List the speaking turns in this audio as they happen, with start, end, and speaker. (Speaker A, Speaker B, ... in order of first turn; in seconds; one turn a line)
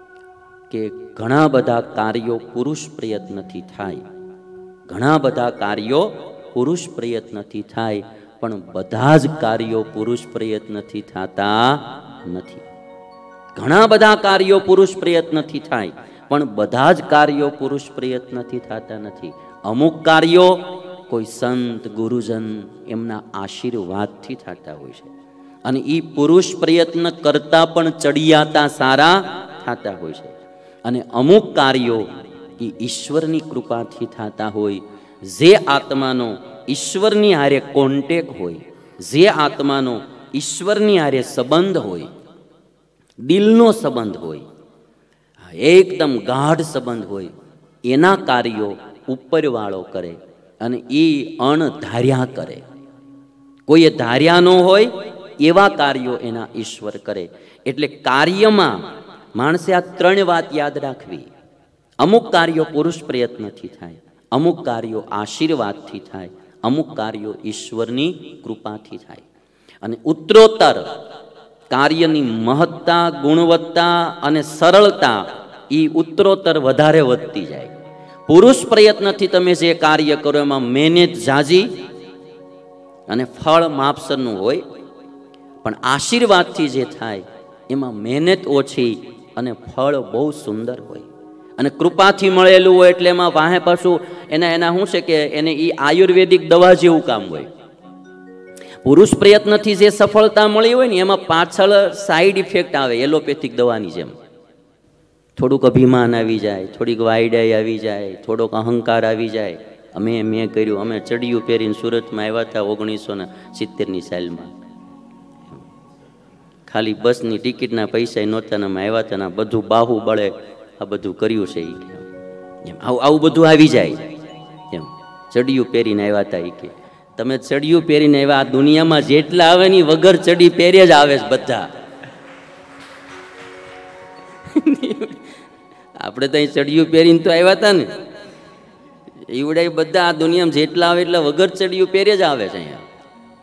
Speaker A: 0.7-4.0
Speaker A: 4.9-12.6
Speaker A: 13.5-25.1
Speaker A: 25.6-42.1
Speaker A: 43.2-44.5
Speaker A: 45.4-47.3
Speaker A: 47.8-52.6
Speaker A: 53.7-61.3
Speaker A: 62.0-69.3
Speaker A: 69.8-70.9
Speaker A: 71.7-77.7
Speaker A: 78.3-81.7
Speaker A: 83.1-84.6
Speaker A: 85.6-97.5
Speaker A: 98.8-104.2
Speaker A: 105.4-114.5
Speaker A: 116.7-122.0
Speaker A: 122.6-124.1
Speaker A: 124.7-131.7
Speaker A: 134.4-135.2
Speaker A: 136.0-137.9
Speaker A: 139.3-142.8